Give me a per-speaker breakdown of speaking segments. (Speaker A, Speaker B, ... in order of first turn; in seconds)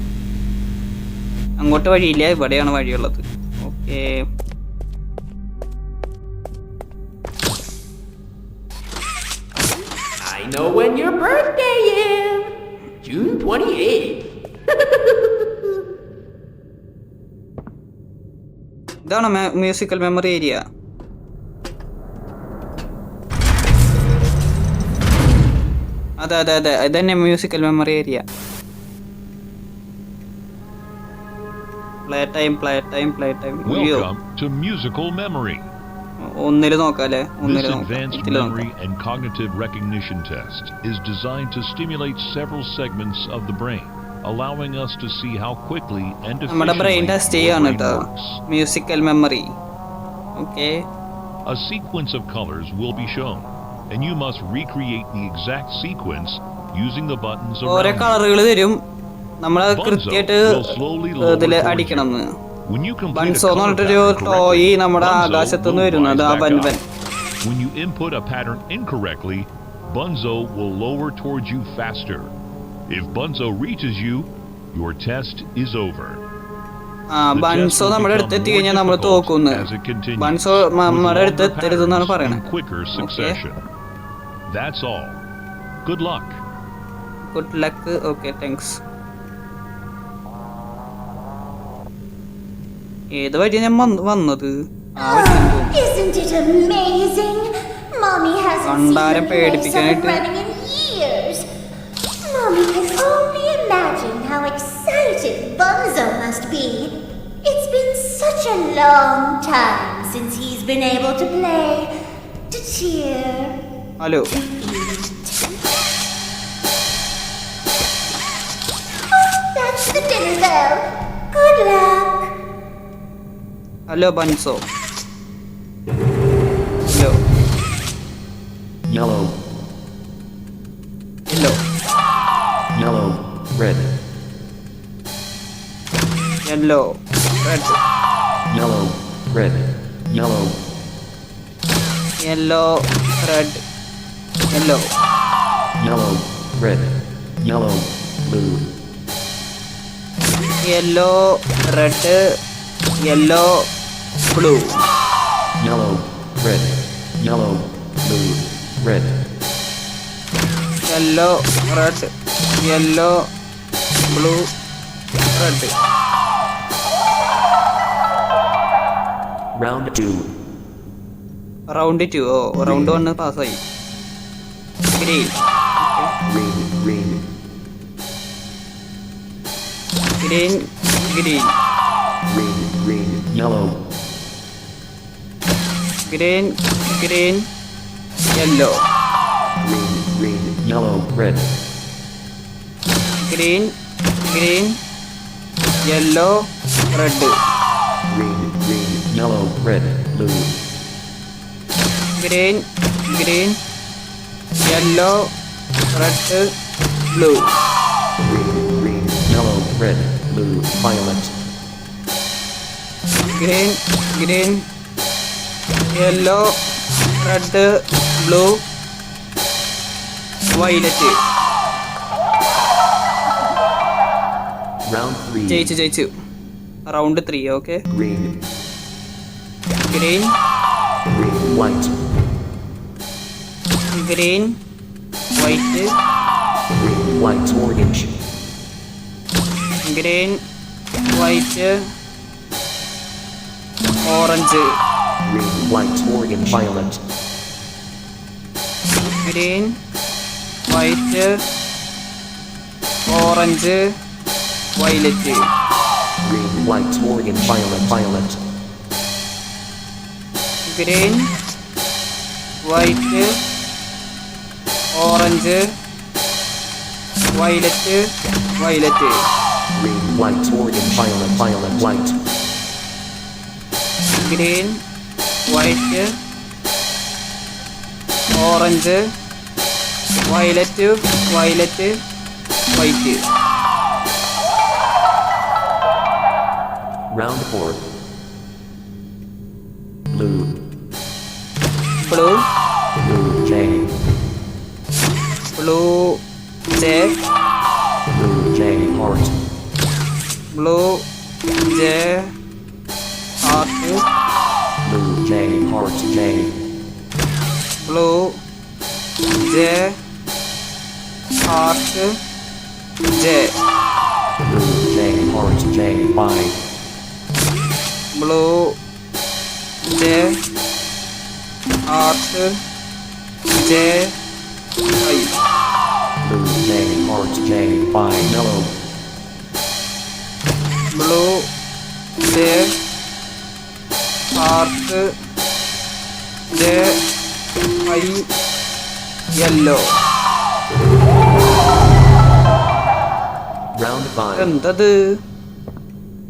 Speaker A: 1.6-4.2, 19.1-20.6, 26.2-28.2, 32.1-34.1, 36.2-38.6, 46.5-49.5, 50.4-50.9, 57.6-58.8, 59.4-62.3, 63.1-66.8, 77.1-79.6, 80.2-82.4, 83.0-83.4, 87.3-88.8, 93.1-95.8, 98.6-100.2, 114.0-114.3, 123.9-124.6, 126.9-127.2, 131.3-131.6, 136.4-137.8, 142.2-143.6, 144.5-144.9, 150.7-152.2, 153.1-153.5, 154.3-154.8, 160.9-162.1, 162.6-163.2, 164.1-164.5, 165.4-165.7, 171.7-173.6, 174.9-176.1, 180.2-181.5, 186.1-187.4, 188.3-188.8, 193.2-193.7, 194.3-194.8, 195.9-196.3, 196.9-197.3, 202.2-203.6, 204.6-205.2, 205.9-206.5, 207.1-207.5, 213.4-214.6, 216.0-216.5, 217.2-217.7, 218.2-218.6, 220.6-221.2, 225.5-226.1, 226.9-227.8, 229.9-230.3, 234.0-234.5, 235.4-235.9, 239.9-240.4, 241.1-241.8, 244.1-244.7, 249.2-249.7, 250.7-251.4, 253.1-253.8, 254.8-255.4, 260.7-261.2, 262.6-263.4, 265.0-265.6, 267.4-268.0, 268.6-269.2, 274.2-274.8, 275.5-276.1, 278.4-279.0, 280.3-281.9, 282.8-283.2, 292.0-292.4, 295.6-296.1, 296.8-297.1, 300.6-301.0, 301.7-302.3, 303.4-304.0, 307.9-308.3, 309.4-309.9, 311.5-312.1, 313.1-313.5, 318.1-318.6, 319.9-320.3, 321.9-322.5, 323.6-324.1, 325.0-325.4, 331.0-331.3, 332.3-332.7, 334.4-335.0, 336.5-337.0, 337.9-338.2, 339.4-339.8, 344.4-345.0
Speaker B: 10.2-12.5, 13.0-15.7
Speaker C: 33.7-35.7, 37.4-48.4, 51.5-58.2, 59.7-62.1, 62.6-66.8, 67.4-72.3, 72.9-76.2, 77.3-83.6, 84.5-85.2, 85.8-86.4
Speaker D: 95.0-101.5, 102.2-111.9, 112.5-113.6, 114.3-115.5, 119.5-122.3
Speaker E: 128.9-129.4, 132.7-134.0, 138.5-140.6, 145.8-148.7, 155.6-159.2, 169.6-170.3, 172.6-173.0, 176.2-177.2, 182.2-183.8, 189.6-191.5, 198.1-200.6, 208.2-211.3, 224.9-225.7, 227.9-228.4, 231.1-231.9, 236.7-238.1, 245.2-247.0, 256.2-258.4, 269.7-272.2, 287.1-287.9, 290.1-290.6, 293.0-293.9, 298.1-299.4, 304.9-306.5, 314.4-316.6, 326.2-328.8, 343.7-344.5